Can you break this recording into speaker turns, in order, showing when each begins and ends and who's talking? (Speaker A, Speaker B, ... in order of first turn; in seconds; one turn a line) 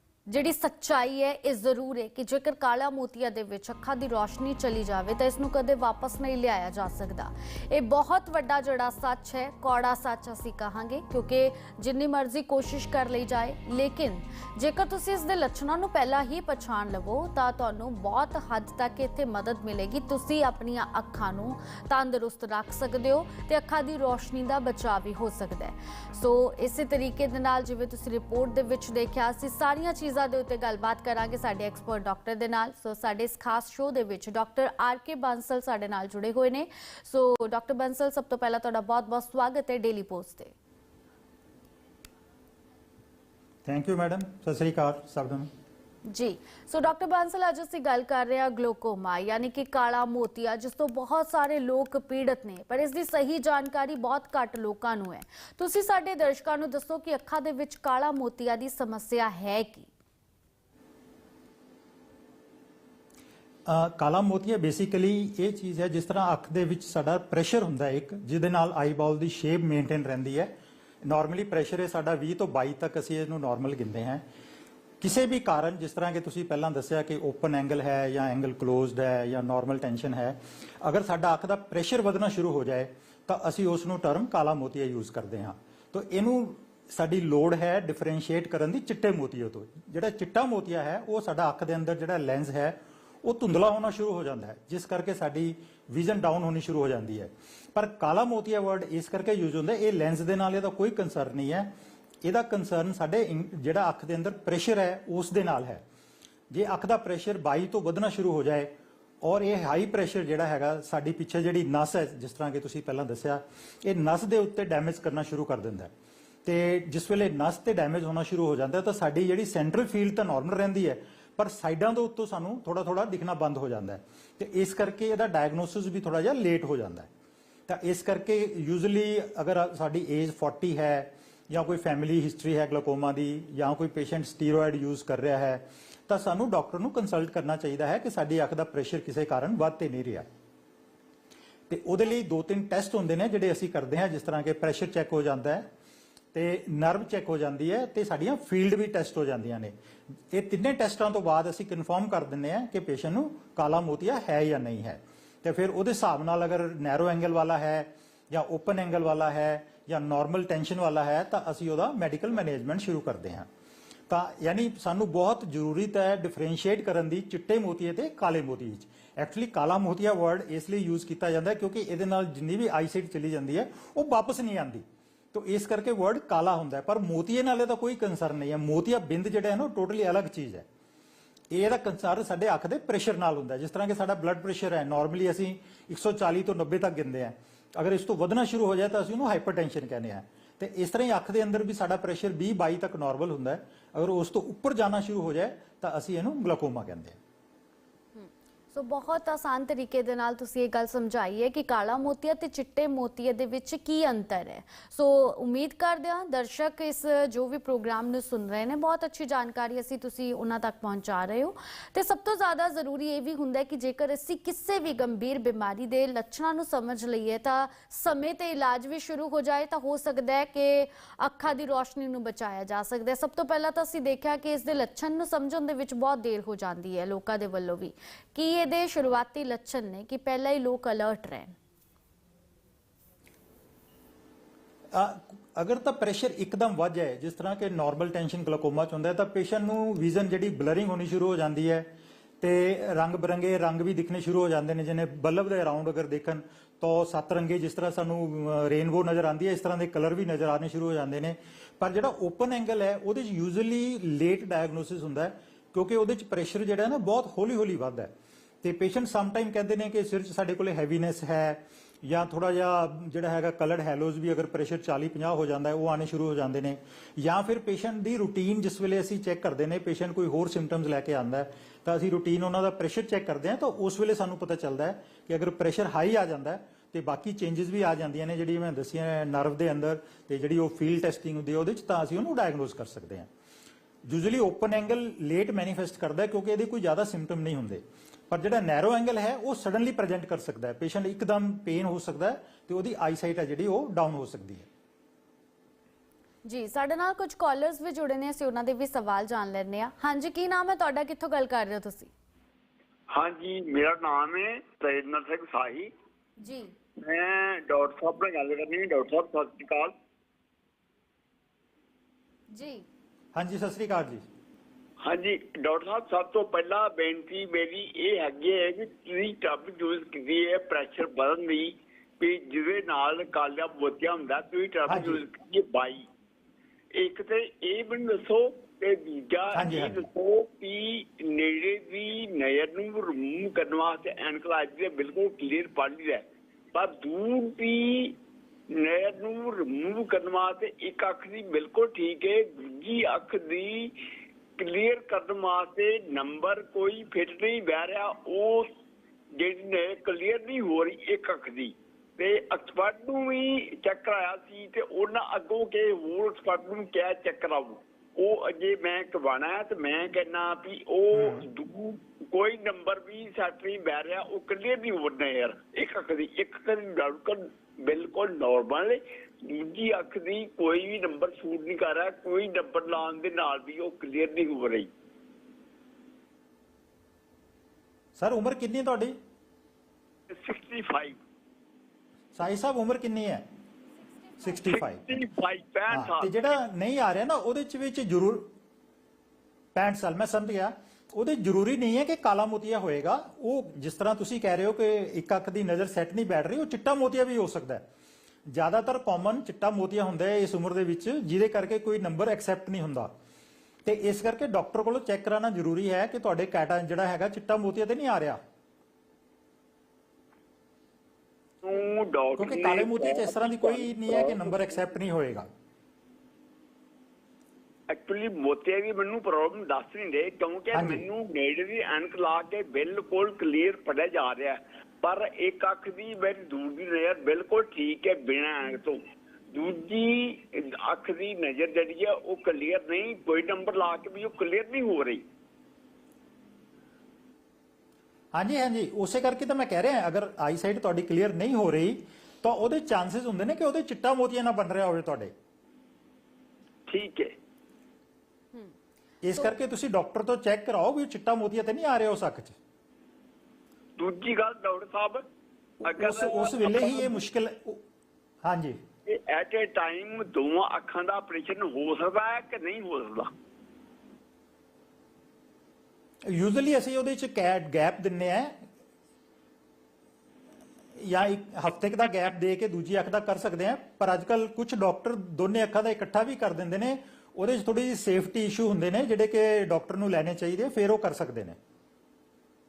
Speaker A: 0.3-40.5
Speaker B: 43.7-45.5
Speaker A: 46.1-59.9
Speaker B: 63.7-70.5
Speaker B: 71.1-74.2
Speaker B: 75.0-101.7
Speaker B: 102.2-105.8
Speaker B: 106.5-115.9
Speaker B: 116.5-127.1
Speaker B: 127.7-140.3
Speaker B: 141.7-145.7
Speaker B: 146.3-149.7
Speaker B: 150.3-163.5
Speaker B: 164.1-180.7
Speaker B: 181.5-197.2
Speaker A: 198.2-231.6
Speaker B: 234.9-241.9
Speaker B: 242.4-258.1
Speaker B: 258.6-283.3
Speaker B: 284.1-294.7
Speaker A: 296.4-302.1
Speaker C: 303.1-305.9
Speaker A: 306.4-306.7
Speaker C: 307.0-309.9
Speaker A: 312.5-312.9
Speaker B: 313.4-314.3
Speaker C: 315.0-326.1
Speaker B: 324.9-325.2
Speaker C: 326.9-338.2
Speaker B: 329.5-330.1
Speaker C: 338.7-343.9
Speaker C: 344.6-348.7
Speaker C: 349.4-374.9
Speaker B: 361.1-361.4
Speaker B: 378.2-379.2
Speaker C: 380.3-381.2
Speaker B: 382.4-383.5
Speaker B: 384.4-385.0
Speaker C: 384.7-386.3
Speaker B: 385.9-388.5
Speaker B: 389.8-397.9
Speaker B: 398.5-403.1
Speaker B: 403.9-408.4
Speaker C: 411.6-414.9
Speaker B: 412.4-415.5
Speaker C: 417.9-429.0
Speaker B: 420.7-421.1
Speaker C: 429.5-435.2
Speaker B: 438.3-445.3
Speaker C: 446.9-447.3
Speaker B: 449.2-452.6
Speaker C: 454.0-455.2
Speaker C: 455.8-457.2
Speaker B: 455.8-457.8
Speaker B: 458.4-458.8
Speaker C: 459.1-463.3
Speaker B: 466.3-468.6
Speaker B: 471.0-481.6